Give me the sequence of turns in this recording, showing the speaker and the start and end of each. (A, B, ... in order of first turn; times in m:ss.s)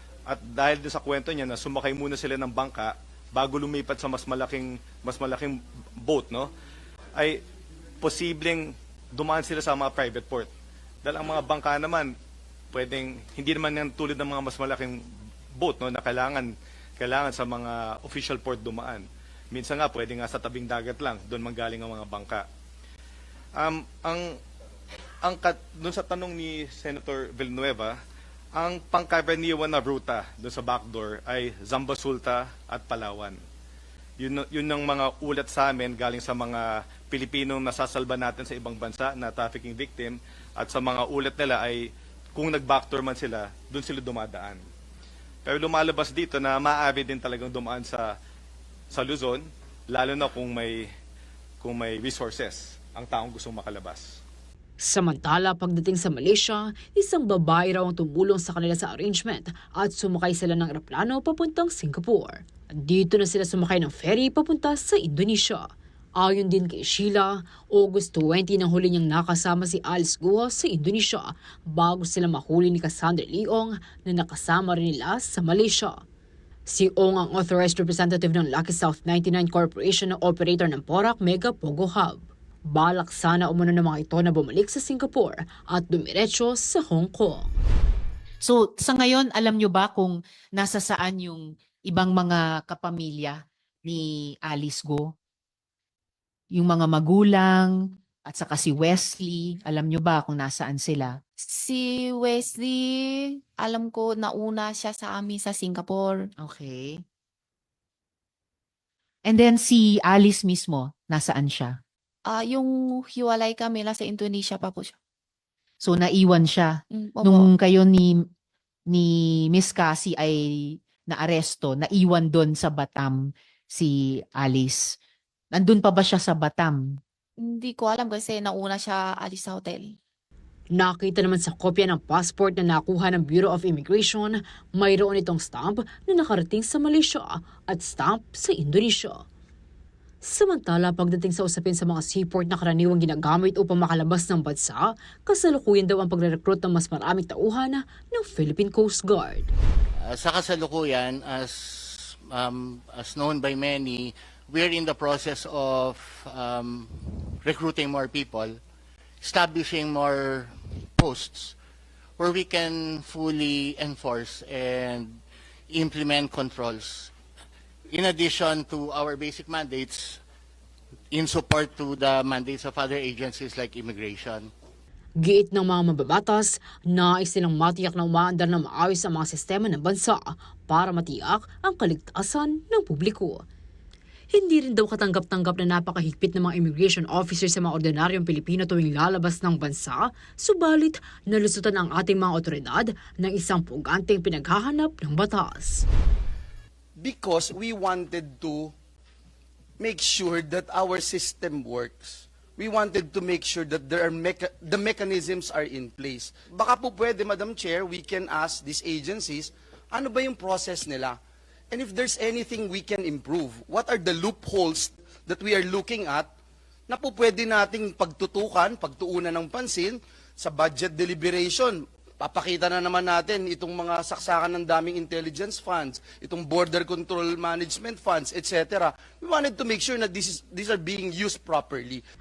0:00.3-0:06.5 A
0:07.2-0:07.4 A
0:08.0-0:10.5 A
0:11.0-0:12.1 A
0:12.7-0:15.0 A
0:15.6-0:22.4 A
0:23.6-0:24.4 A
0:25.2-0:28.0 A
0:28.6-0:33.4 A
0:34.2-0:44.6 A
0:45.4-0:48.2 A
0:48.9-0:50.9 A
0:51.6-0:54.2 A
0:54.8-1:05.6 B
1:06.2-1:16.0 B
1:16.7-1:27.5 B
1:28.4-1:35.1 C
1:36.5-1:37.7 C
1:38.2-1:41.2 C
1:41.4-1:46.3 D
1:46.4-1:47.0 C
1:49.3-1:51.8 C
1:52.3-1:55.0 D
1:55.8-1:58.3 C
1:56.9-1:57.5 D
1:58.9-2:03.2 C
2:03.7-2:04.9 C
2:05.5-2:07.0 C
2:07.4-2:10.0 D
2:10.7-2:19.2 B
2:20.2-2:29.5 B
2:30.0-2:38.6 E
2:39.2-2:41.6 E
2:42.2-2:47.1 E
2:47.9-2:50.2 E
2:51.1-2:54.5 E
2:55.2-3:03.4 B
3:04.3-3:15.9 B
3:17.0-3:18.7 F
3:19.8-3:31.2 F
3:31.7-3:36.3 F
3:36.9-3:52.0 F